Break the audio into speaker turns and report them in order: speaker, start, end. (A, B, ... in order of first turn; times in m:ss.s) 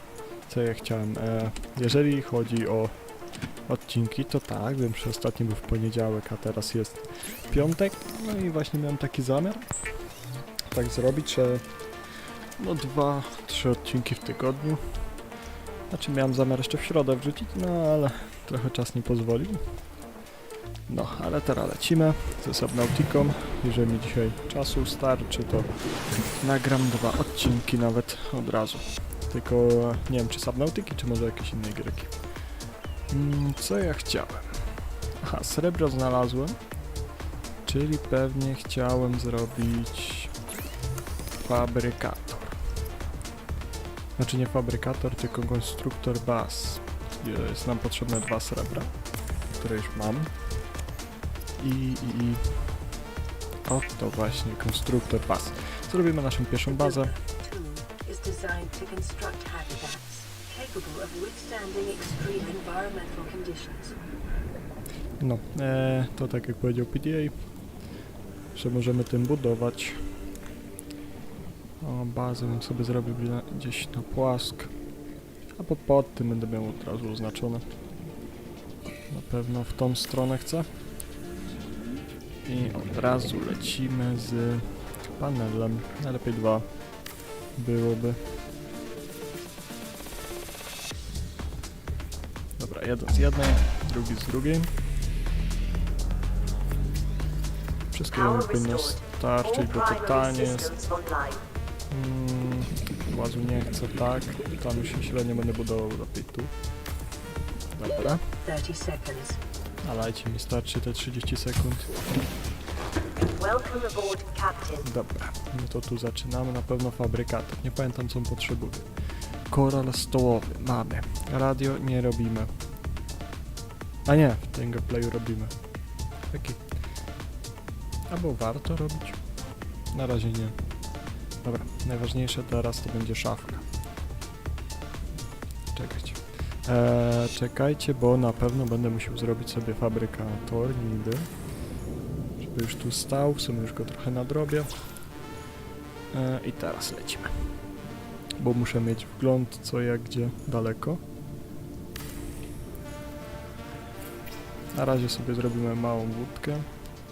0:00.5-0:09.8 A
0:10.7-0:15.1 A
0:15.9-0:19.9 A
0:20.9-0:32.4 A
0:33.1-0:36.6 A
0:37.6-0:40.4 A
0:41.4-0:42.6 A
0:44.2-0:50.4 A
0:51.6-0:52.9 A
0:53.6-0:57.2 A
0:56.6-1:04.0 B
1:05.2-1:07.6 A
1:08.5-1:10.1 A
1:11.8-1:14.8 A
1:15.5-1:17.6 A
1:19.1-1:20.7 A
1:22.4-1:28.2 A
1:32.6-1:34.8 A
1:37.9-1:41.0 A
1:41.9-1:46.5 A
1:47.7-1:48.2 A
1:48.4-1:49.4 B
1:49.8-1:52.0 A
1:53.4-1:54.7 B
1:54.8-2:02.5 A
2:04.0-2:07.1 A
2:08.1-2:09.4 A
2:09.9-2:10.8 A
2:11.4-2:13.6 A
2:15.7-2:21.5 A
2:22.4-2:25.0 A
2:26.1-2:27.3 A
2:28.4-2:31.0 A
2:34.7-2:36.7 A